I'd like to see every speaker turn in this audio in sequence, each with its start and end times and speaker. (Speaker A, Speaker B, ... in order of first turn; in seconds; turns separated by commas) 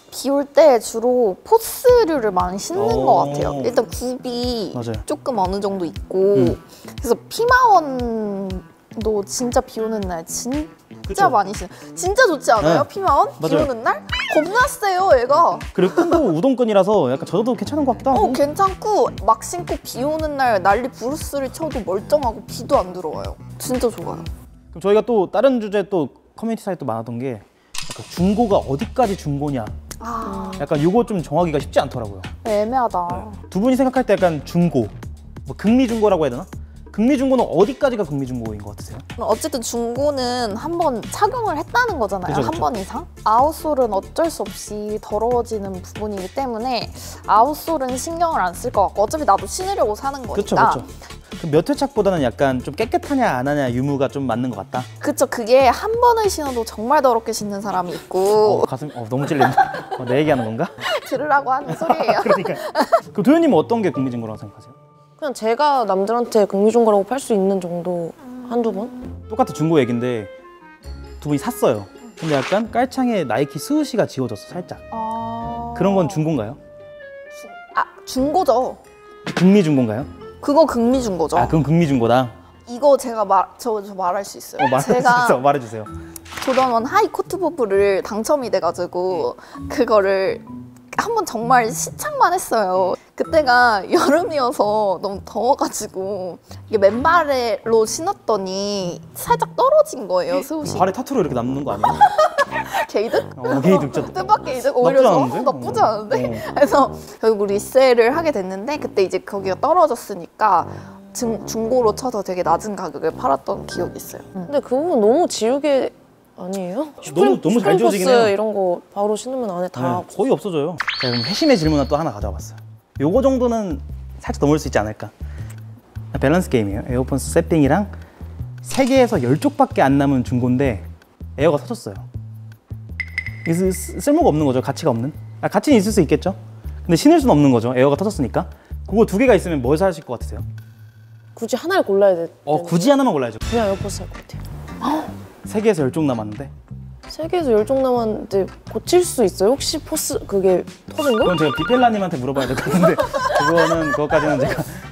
Speaker A: 0.1-16.2, Speaker B: 2.8-3.8, Speaker B: 4.7-5.0, Speaker B: 11.1-11.4, Speaker B: 12.6-13.7, Speaker B: 15.7-18.4, Speaker A: 18.1-24.3, Speaker B: 24.7-29.7, Speaker A: 30.0-30.7, Speaker C: 30.2-30.7, Speaker B: 30.6-32.3, Speaker A: 32.4-33.4, Speaker B: 33.1-34.9, Speaker B: 35.5-39.0, Speaker A: 39.2-50.9, Speaker B: 42.3-42.7, Speaker B: 50.4-54.9, Speaker A: 55.0-58.7, Speaker B: 58.4-60.7, Speaker A: 59.4-59.9, Speaker A: 60.8-63.0, Speaker B: 61.7-64.8, Speaker C: 65.2-69.0, Speaker B: 69.3-70.3, Speaker B: 71.2-74.8, Speaker A: 74.9-76.3, Speaker B: 75.8-76.6, Speaker A: 77.4-78.8, Speaker B: 79.3-80.1, Speaker A: 80.4-81.6, Speaker B: 81.3-82.3, Speaker A: 82.7-85.5, Speaker B: 84.6-85.9, Speaker A: 86.4-100.9, Speaker B: 100.7-102.0, Speaker A: 101.9-114.5, Speaker B: 103.3-104.2, Speaker B: 104.8-106.5, Speaker C: 114.5-120.1, Speaker B: 117.0-118.3, Speaker B: 119.7-125.1, Speaker B: 126.1-127.9, Speaker B: 128.6-130.9, Speaker B: 131.4-132.1, Speaker B: 133.4-140.4, Speaker C: 141.3-143.0, Speaker B: 142.5-143.4, Speaker C: 143.5-144.4, Speaker A: 144.8-145.1, Speaker B: 145.4-146.5, Speaker C: 147.1-151.4, Speaker B: 151.2-154.8